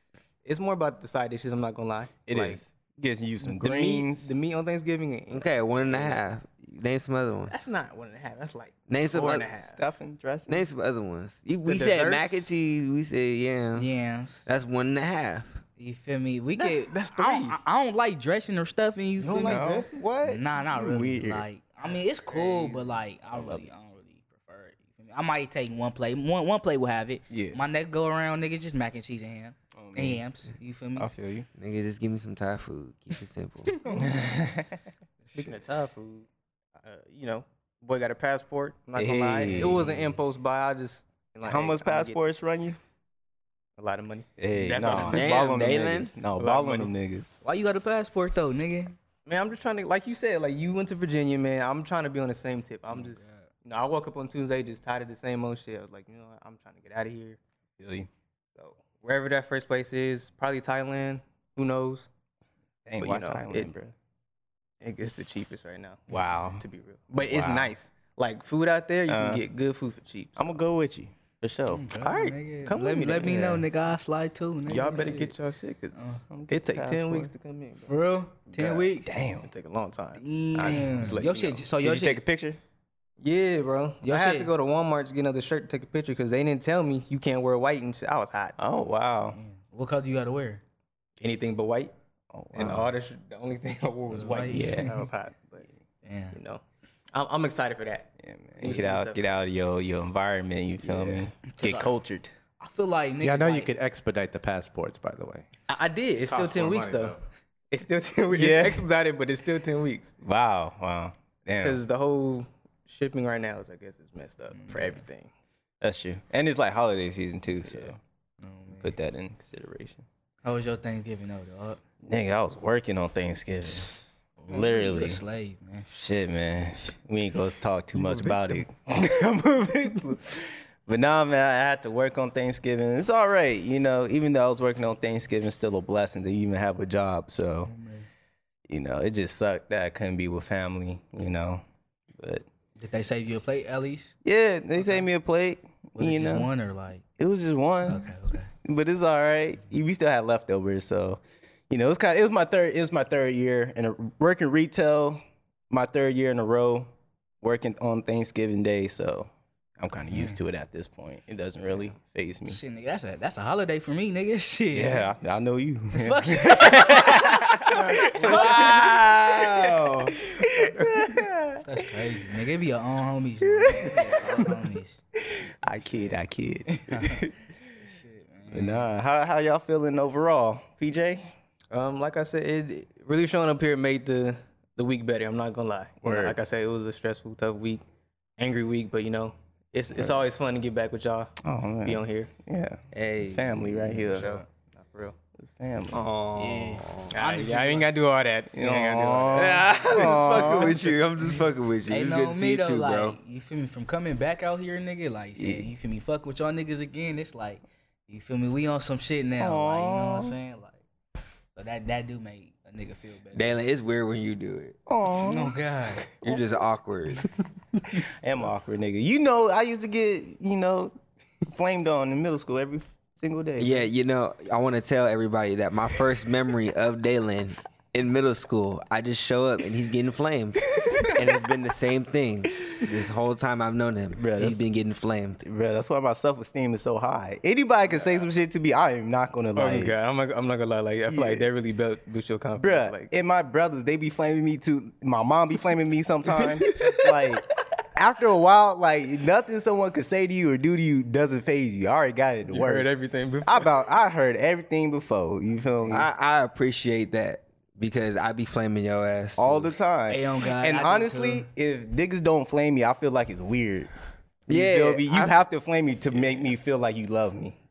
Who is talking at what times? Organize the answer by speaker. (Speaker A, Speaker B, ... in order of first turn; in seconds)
Speaker A: 0.5-2.6, 3.4-6.2, 7.5-9.8, 11.6-12.5, 16.6-17.6, 19.2-20.0, 22.3-22.8, 35.3-36.3, 36.8-42.2, 43.8-45.8, 46.4-46.9, 49.3-57.4, 58.5-62.1, 63.0-63.7, 64.8-70.7, 72.0-73.7, 74.7-78.0, 78.5-78.8, 79.4-81.7, 83.2-88.6, 91.2-91.9, 92.5-95.7, 96.3-96.6, 97.1-99.2, 100.9-101.3, 105.7-107.2, 107.7-110.1, 111.6-115.3, 170.6-170.9, 181.7-187.8, 188.4-192.3, 194.1-195.2, 197.1-200.7, 237.9-238.2, 239.6-243.1, 252.5-253.7
Speaker B: 2.3-4.3, 9.6-10.7, 19.4-21.4, 23.3-23.6, 27.3-27.6, 29.8-30.2, 31.0-31.5, 34.0-34.8, 39.0-39.9, 41.5-42.8, 44.4-47.4, 57.8-58.1, 62.9-64.0, 66.1-66.6, 67.2-67.7, 69.1-69.4, 70.4-71.8, 76.3-77.3, 78.6-79.5, 81.8-82.6, 88.6-89.4, 92.3-92.9, 98.2-102.3, 108.3-108.8, 110.2-111.8, 115.8-118.0, 118.8-120.0, 122.0-123.9, 124.5-125.2, 125.9-137.7, 138.7-141.6, 142.2-142.4, 144.2-146.5, 147.2-148.1, 148.6-156.9, 157.4-162.6, 164.7-171.6, 173.5-174.5, 175.2-177.3, 178.5-181.3, 186.0-186.4, 191.4-194.4, 195.4-196.0, 198.5-200.8, 205.4-205.7, 209.4-210.3, 214.9-215.6, 218.0-220.9, 221.5-223.9, 234.2-234.6, 235.4-239.9, 241.1-241.5, 242.6-256.1, 259.4-263.9, 264.5-267.6
Speaker C: 5.3-7.5, 8.9-9.5, 10.5-13.9, 14.5-15.6, 31.6-33.9, 44.9-46.1, 192.9-194.1, 195.9-197.1, 199.3-203.2, 213.3-214.8, 216.2-217.2, 223.6-235.4, 255.9-259.8, 264.5-265.4, 266.1-266.5
Speaker D: 13.8-14.4, 15.8-19.7, 20.2-31.1, 47.4-49.0, 53.0-53.5, 71.7-75.3, 76.0-76.2, 77.8-79.1, 80.2-82.2, 84.0-84.5, 89.3-90.6, 94.1-95.1, 96.0-96.4, 101.5-101.9, 102.6-103.7, 114.5-115.0, 118.4-118.9, 120.4-121.8, 124.5-125.9, 137.7-138.1, 142.8-144.1, 144.8-145.1, 146.0-147.0, 147.8-148.5, 160.1-160.4, 162.5-165.1, 165.9-168.9, 171.6-175.0, 175.8-176.1, 176.7-178.9, 196.4-197.9, 201.9-210.8, 211.6-213.6, 215.2-216.1, 260.1-261.5
Speaker E: 103.2-105.5, 106.3-107.2